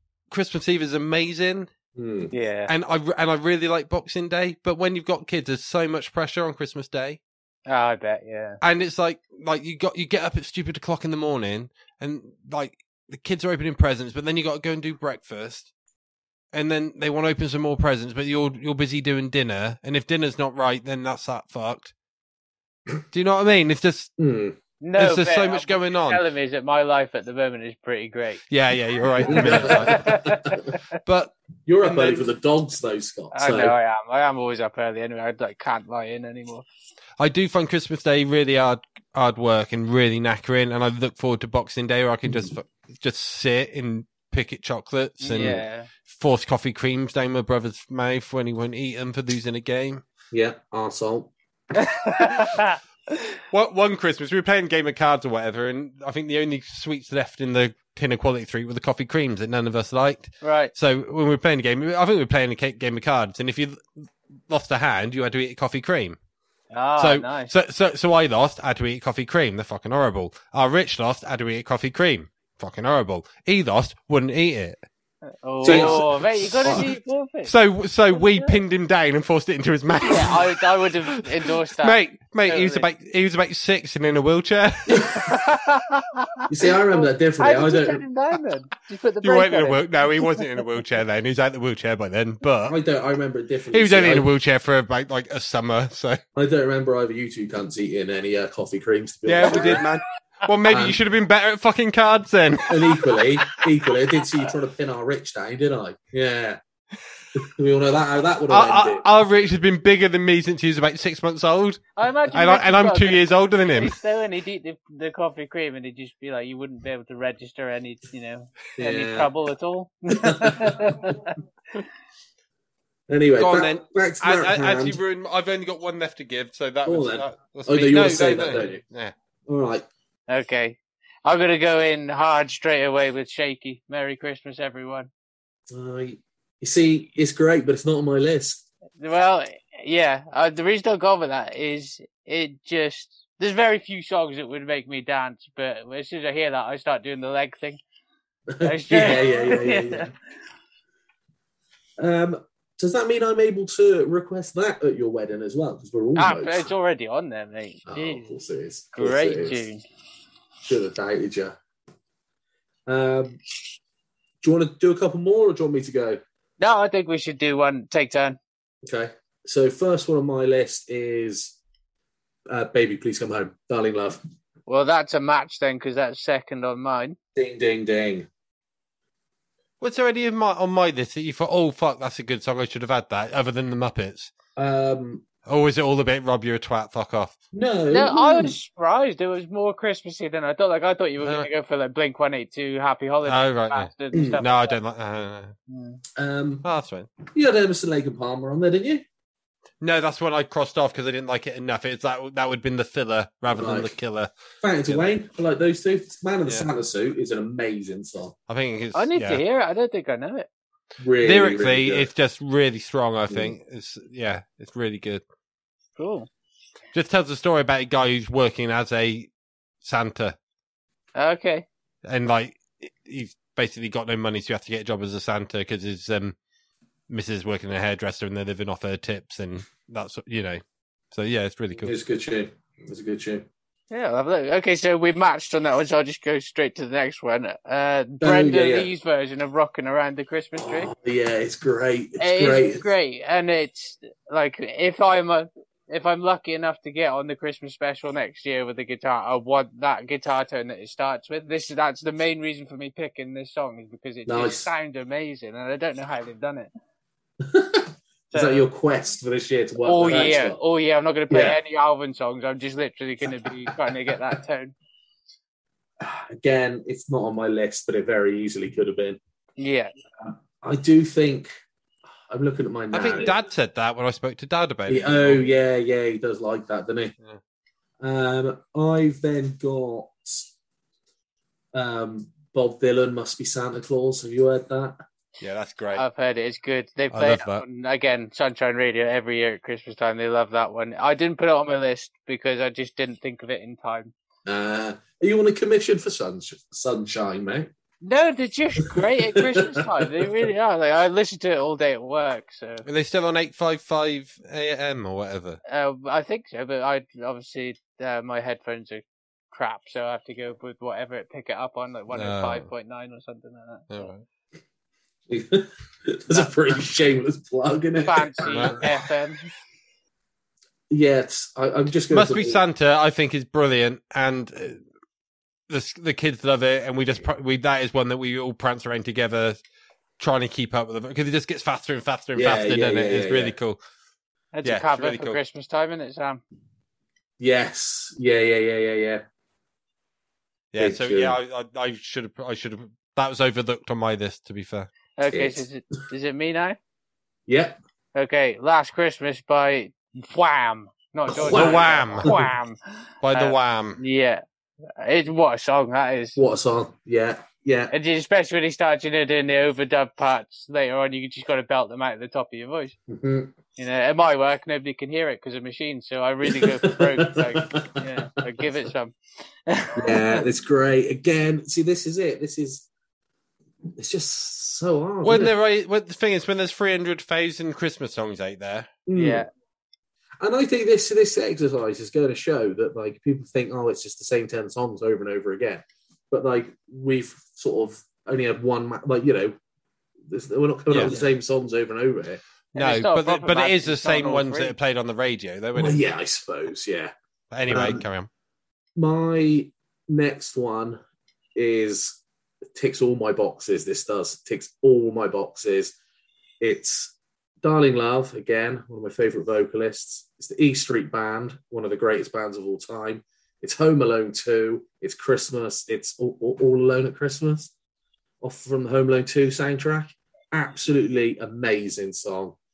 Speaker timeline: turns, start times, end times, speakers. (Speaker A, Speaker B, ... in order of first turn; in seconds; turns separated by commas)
Speaker A: 0.3-1.7, Speaker B: 1.9-2.3, Speaker C: 2.3-2.7, Speaker A: 2.7-7.2, Speaker C: 7.7-8.6, Speaker A: 8.6-15.7, Speaker A: 16.5-21.9, Speaker A: 23.1-24.1, Speaker B: 24.2-24.6, Speaker C: 24.8-28.4, Speaker A: 25.0-26.2, Speaker A: 28.5-30.2, Speaker C: 29.2-30.8, Speaker B: 29.2-30.5, Speaker A: 31.0-31.3, Speaker B: 31.6-33.8, Speaker C: 31.8-32.2, Speaker C: 33.3-36.6, Speaker A: 37.2-50.0, Speaker B: 42.3-42.5, Speaker C: 45.2-45.9, Speaker B: 50.3-51.3, Speaker C: 51.8-52.8, Speaker A: 53.5-66.2, Speaker C: 60.4-60.7, Speaker C: 66.7-67.5, Speaker A: 67.0-74.8, Speaker C: 75.4-77.5, Speaker B: 75.6-76.9, Speaker A: 75.6-76.0, Speaker A: 77.5-80.6, Speaker C: 78.1-78.6, Speaker C: 80.0-82.8, Speaker A: 81.8-85.2, Speaker B: 84.9-85.2, Speaker C: 85.2-89.8, Speaker B: 86.5-88.0, Speaker A: 89.2-92.8, Speaker B: 92.6-94.3, Speaker A: 93.7-96.2, Speaker B: 96.3-99.8, Speaker A: 99.2-102.8, Speaker B: 100.7-101.0, Speaker B: 102.7-106.6, Speaker B: 107.3-109.0, Speaker A: 108.5-113.9, Speaker C: 112.0-113.2, Speaker C: 113.8-121.3, Speaker B: 118.8-119.3, Speaker B: 120.3-121.1, Speaker B: 123.1-125.0, Speaker A: 123.4-129.1, Speaker B: 126.8-128.8, Speaker B: 129.5-129.9, Speaker C: 130.3-135.1, Speaker B: 135.7-138.6, Speaker C: 139.0-147.8, Speaker B: 148.5-150.1, Speaker C: 148.6-150.1, Speaker B: 152.0-156.7, Speaker C: 156.2-158.3, Speaker B: 157.9-159.6, Speaker C: 158.9-159.8, Speaker B: 160.6-161.6, Speaker B: 162.9-163.4, Speaker B: 164.4-166.2, Speaker C: 166.6-168.4, Speaker B: 168.8-171.6, Speaker B: 172.5-174.2, Speaker C: 174.7-177.2, Speaker B: 177.3-178.3, Speaker A: 179.8-184.3, Speaker B: 184.6-185.2, Speaker A: 185.4-187.4, Speaker B: 187.5-188.5, Speaker C: 187.9-194.8, Speaker A: 191.2-191.5, Speaker A: 193.2-195.5, Speaker B: 194.1-194.4, Speaker C: 195.7-196.0, Speaker B: 196.2-196.6, Speaker A: 196.6-197.1, Speaker B: 197.3-199.0, Speaker A: 199.8-204.3, Speaker B: 203.5-203.9, Speaker B: 204.6-208.3, Speaker A: 208.5-209.4, Speaker C: 208.9-210.5, Speaker B: 211.0-212.1, Speaker A: 211.2-215.2, Speaker B: 213.3-213.5, Speaker C: 216.0-216.3, Speaker A: 216.9-219.3, Speaker A: 219.8-220.4, Speaker C: 221.2-221.7, Speaker A: 222.0-226.3, Speaker A: 227.1-231.9, Speaker B: 231.8-233.4, Speaker C: 233.9-240.9, Speaker B: 238.2-238.9, Speaker B: 240.6-242.8, Speaker C: 242.2-256.7, Speaker B: 254.2-254.7, Speaker B: 257.4-260.6, Speaker C: 258.3-258.7, Speaker C: 259.8-264.7, Speaker B: 261.3-261.6, Speaker B: 263.2-264.4, Speaker B: 266.0-269.2, Speaker C: 269.6-269.9, Speaker B: 270.2-271.5, Speaker B: 272.3-273.3, Speaker A: 272.9-275.5, Speaker B: 274.9-277.1, Speaker B: 278.0-280.5, Speaker B: 281.7-285.0, Speaker A: 285.4-286.0, Speaker C: 285.9-294.1, Speaker A: 287.1-287.6, Speaker B: 294.4-297.7, Speaker C: 298.0-302.8, Speaker B: 298.9-300.5, Speaker A: 302.9-305.6, Speaker C: 305.7-314.1, Speaker A: 312.1-312.7, Speaker A: 313.9-314.2, Speaker B: 315.3-318.9, Speaker C: 318.0-319.5, Speaker A: 318.4-318.8, Speaker B: 320.9-322.6, Speaker A: 322.1-324.8, Speaker A: 325.7-329.6, Speaker A: 330.2-333.8, Speaker B: 332.3-333.6, Speaker C: 334.5-336.4, Speaker A: 334.6-335.4, Speaker B: 337.4-339.2, Speaker A: 340.7-344.9, Speaker B: 340.8-341.4, Speaker C: 345.2-346.8, Speaker B: 345.3-345.6, Speaker B: 347.5-347.8, Speaker C: 348.1-352.8, Speaker B: 351.3-352.5, Speaker A: 351.4-352.3, Speaker A: 353.2-354.0, Speaker C: 353.3-354.4, Speaker C: 355.0-356.4, Speaker B: 356.4-357.9, Speaker C: 357.9-362.9, Speaker B: 363.1-363.5, Speaker C: 363.8-369.1, Speaker B: 366.4-368.1, Speaker C: 369.7-370.4, Speaker B: 369.9-372.9, Speaker B: 373.9-375.5, Speaker A: 375.2-378.9, Speaker B: 379.1-379.4, Speaker C: 379.1-379.5, Speaker B: 380.4-389.6, Speaker B: 390.3-392.4, Speaker A: 390.9-391.1, Speaker C: 392.7-394.8, Speaker A: 392.7-396.0, Speaker B: 395.7-397.1, Speaker A: 397.5-398.3, Speaker B: 397.7-398.0, Speaker B: 398.9-401.0, Speaker B: 401.5-402.2, Speaker B: 402.7-405.9, Speaker B: 406.6-417.7, Speaker B: 418.4-422.6